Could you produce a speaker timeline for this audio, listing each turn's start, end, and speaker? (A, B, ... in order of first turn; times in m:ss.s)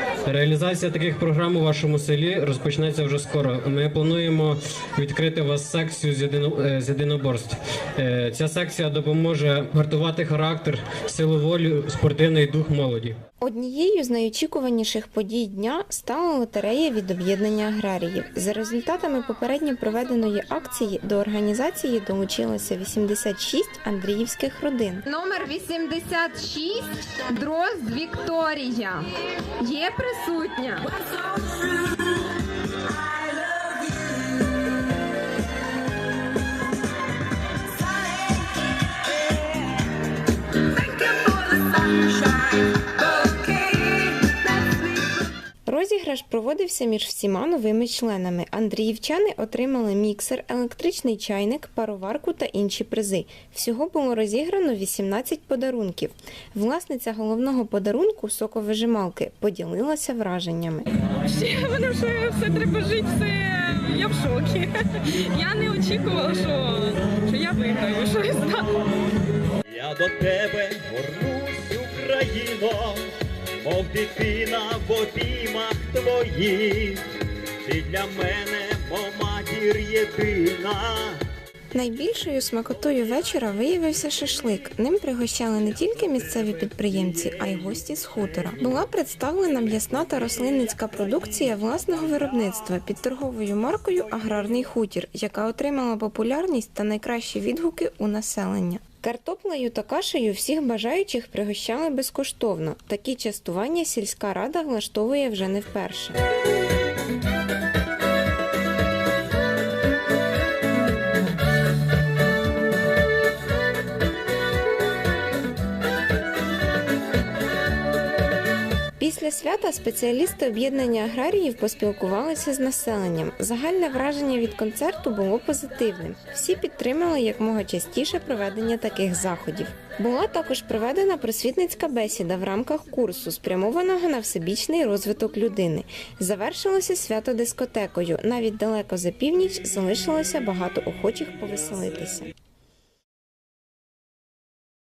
0:00.2-0:13.2 A
0:13.4-0:25.0 B
0:25.0-0:32.2 C
0:32.9-0:34.5 C
0:38.0-0:38.4 C
0:40.6-0:44.7 C
0:45.6-1:00.9 B
1:01.2-1:01.6 D
1:02.4-1:03.3 D
1:03.8-1:04.3 D
1:04.9-1:08.7 D
1:09.7-1:13.0 E
1:13.6-1:17.0 E
1:17.6-1:21.1 E
1:21.7-1:46.2 B
1:59.0-2:22.3 B